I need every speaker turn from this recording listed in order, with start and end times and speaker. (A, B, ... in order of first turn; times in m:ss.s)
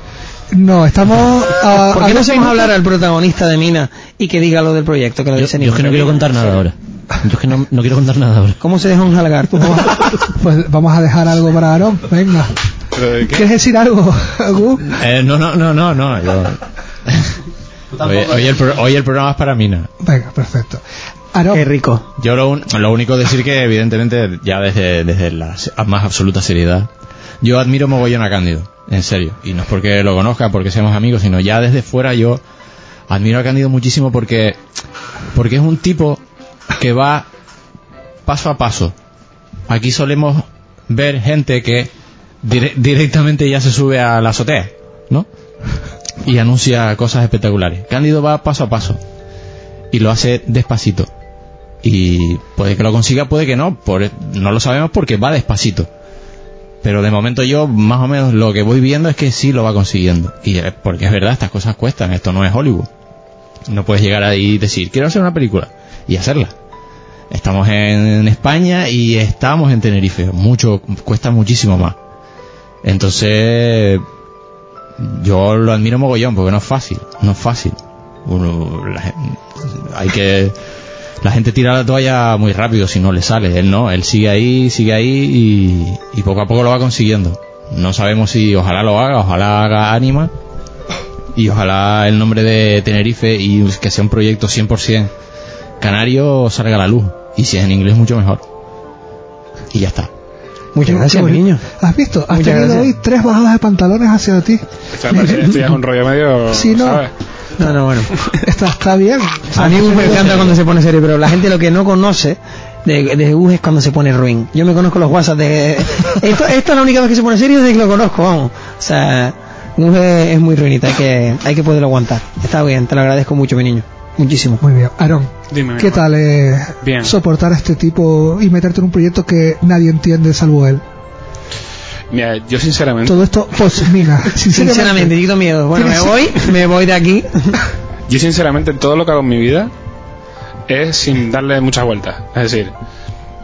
0:00.5-0:02.7 A
0:01.7-0:06.5 B
0:05.4-0:08.6 C
0:08.6-0:10.1 B
0:09.7-0:12.5 A
0:12.9-0:13.4 D
0:13.2-0:14.9 A
0:14.9-0:17.4 E
0:18.0-0:19.9 E
0:20.0-0:20.8 A
0:21.3-0:21.7 A
0:21.5-0:22.0 B
0:22.2-0:26.9 E
0:27.4-0:32.4 E
0:33.1-0:34.6 E
0:35.3-0:36.2 E
0:36.8-0:37.3 E
0:38.2-0:38.9 E
0:39.7-0:41.9 E
0:42.4-0:45.3 E
0:46.2-0:49.0 E
0:49.9-0:51.1 E
0:51.8-0:55.9 E
0:56.8-1:02.9 E
1:03.7-1:06.5 E
1:07.3-1:12.0 E
1:12.8-1:14.0 E
1:15.0-1:20.5 E
1:21.2-1:30.3 E
1:31.3-1:35.1 E
1:35.8-1:38.4 E
1:39.7-1:40.1 E
1:40.7-1:41.6 B
1:40.8-1:45.6 A
1:42.3-1:42.9 B
1:44.9-1:47.1 D
1:46.5-1:47.0 A
1:47.6-1:48.1 B
1:48.4-1:50.4 A
1:49.5-2:04.6 B
2:04.6-2:10.8 A
2:05.5-2:06.1 D
2:06.8-2:07.1 D
2:12.1-2:13.2 D
2:13.0-2:15.2 A
2:14.5-2:17.6 B
2:15.7-2:16.3 A
2:18.1-2:19.7 D
2:20.7-2:22.7 D